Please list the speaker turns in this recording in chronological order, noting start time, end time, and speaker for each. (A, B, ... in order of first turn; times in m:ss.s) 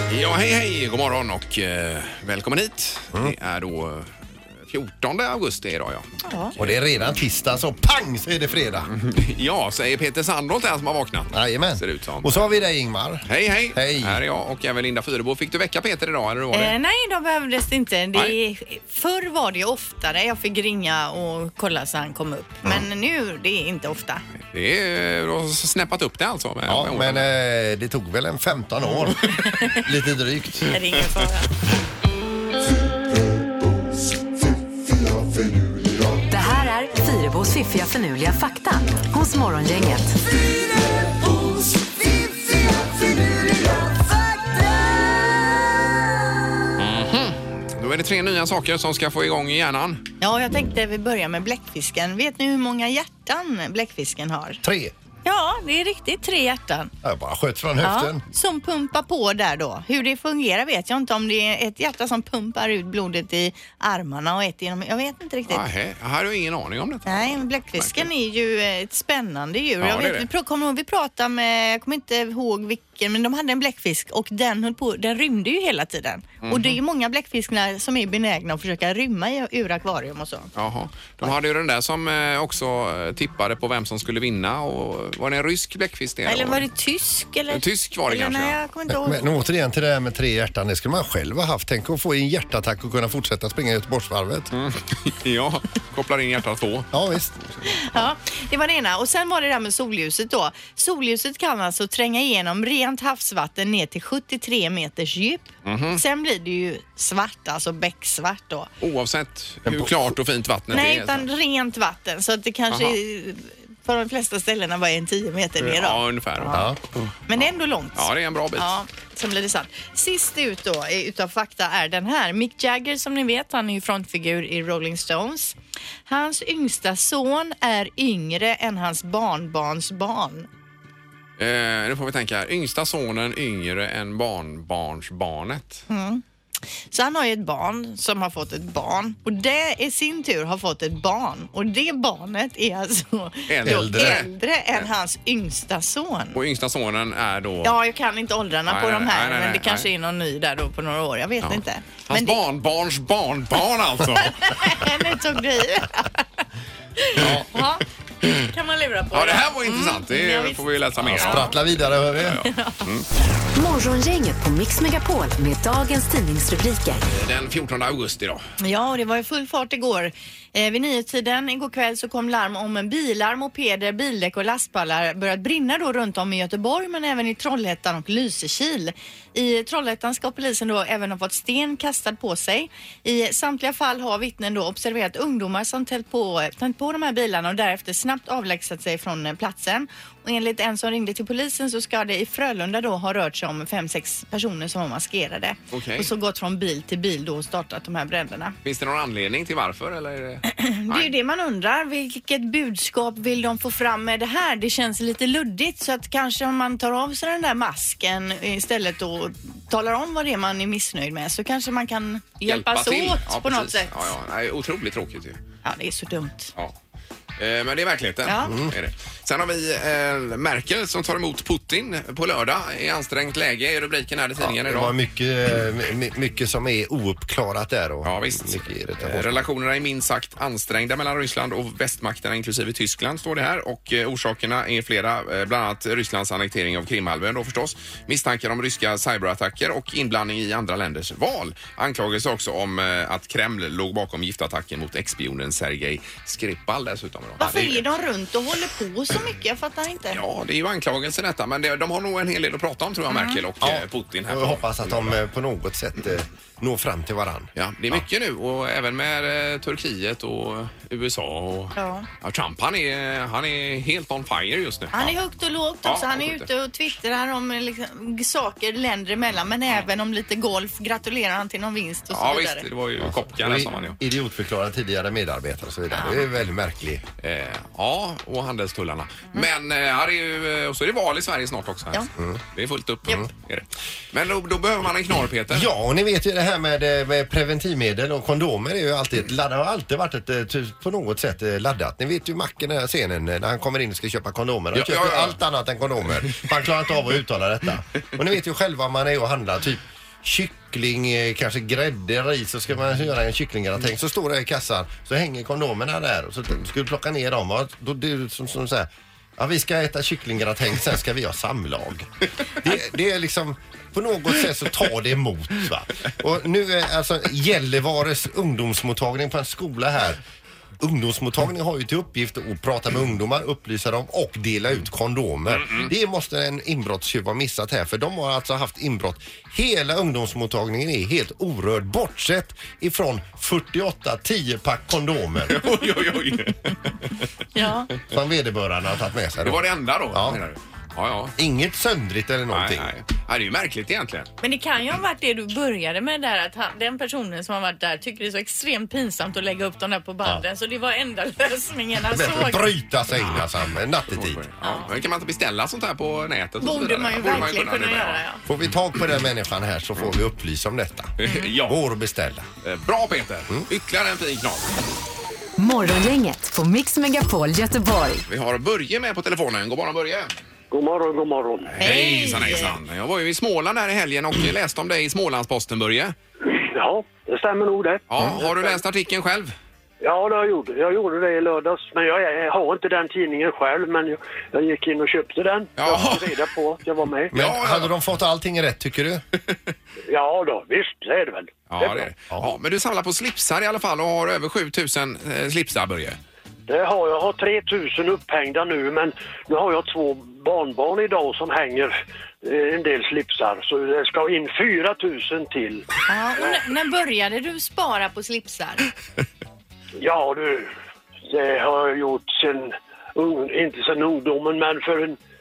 0:00.1-0:04.1 A
0:04.6-0:06.8 A
0:06.2-0:06.5 B
0:06.6-0:08.9 C
0:08.8-0:12.5 A
0:11.3-0:14.2 C
0:13.2-0:16.8 A
0:16.5-0:24.2 B
0:24.5-0:27.2 A
0:26.7-0:30.7 C
0:29.3-0:29.8 B
0:30.6-0:31.5 B
0:36.3-0:40.2 D
0:46.8-0:50.0 A
0:50.2-0:54.6 B
0:54.6-0:54.9 C
0:55.2-0:56.9 B
0:57.0-0:58.2 C
0:57.8-1:05.6 B
1:05.5-1:08.1 A
1:07.0-1:20.5 B
1:09.8-1:10.3 A
1:16.4-1:16.8 A
1:20.5-1:26.6 A
1:26.2-1:29.3 B
1:27.5-1:28.5 A
1:28.9-1:34.5 C
1:34.5-1:36.9 A
1:36.9-1:37.7 C
1:37.7-1:48.7 B
1:45.6-1:46.0 A
1:48.8-1:51.2 A
1:50.7-1:56.6 B
1:52.7-1:53.0 A
1:55.6-1:58.7 A
1:56.5-1:56.8 C
1:57.3-2:05.5 B
2:06.1-2:10.5 B
2:11.4-2:15.8 A
2:15.9-2:16.2 B
2:16.9-2:26.4 B
2:23.5-2:24.9 A
2:23.6-2:24.2 C
2:26.3-2:27.8 A
2:27.6-2:32.4 B
2:28.6-2:29.9 A
2:31.4-2:34.6 A
2:34.3-2:36.4 B
2:37.0-2:37.8 B
2:37.2-2:37.5 A
2:38.5-2:41.5 B
2:39.1-2:43.0 A
2:41.0-2:42.4 C
2:42.2-2:42.9 B
2:43.5-2:47.0 D
2:47.1-2:48.4 A
2:48.6-3:18.6 B
3:15.7-3:16.1 A
3:18.6-3:21.1 A
3:20.5-3:34.1 B
3:32.4-3:35.4 A
3:35.6-3:36.5 B
3:37.4-3:45.0 A
3:38.2-3:38.5 B
3:38.4-3:38.8 C
3:44.4-3:49.5 C
3:48.0-4:07.8 A
4:07.4-4:10.2 B
4:10.1-4:15.2 A
4:13.1-4:13.4 B
4:13.6-4:18.0 C
4:17.6-4:25.1 A
4:21.8-4:22.1 B
4:24.9-4:32.6 B
4:25.8-4:26.5 A
4:32.1-4:34.0 A
4:33.0-4:37.0 C
4:35.9-4:36.2 B
4:37.2-4:45.7 A
4:45.5-5:12.1 C
4:54.7-4:55.4 A
5:12.6-5:20.2 C
5:20.8-5:35.6 C
5:25.5-5:25.9 A
5:35.4-5:37.2 A
5:37.5-5:37.9 B
5:38.0-5:40.4 C
5:39.4-5:41.3 A
5:41.4-5:42.9 C
5:42.5-5:44.3 A
5:44.4-5:52.7 B
5:52.1-5:54.4 C
5:53.1-5:53.5 A
5:54.1-5:58.2 A
5:54.6-5:54.9 B
5:56.6-5:58.4 B
5:58.4-6:02.5 C
6:01.2-6:01.8 A
6:01.2-6:01.5 B
6:02.6-6:04.7 A
6:05.6-6:08.2 D
6:08.2-6:10.3 A
6:10.7-6:11.9 E
6:11.8-6:16.1 A
6:11.8-6:12.8 B
6:16.4-6:18.8 E
6:18.1-6:19.5 A
6:20.0-6:27.3 E
6:25.8-6:26.4 A
6:27.3-6:29.2 C
6:27.3-6:27.9 A
6:30.1-6:32.1 E
6:31.7-6:36.2 A
6:36.7-6:45.8 E
6:46.1-6:48.9 B
6:50.0-6:50.7 E
6:51.3-6:55.2 E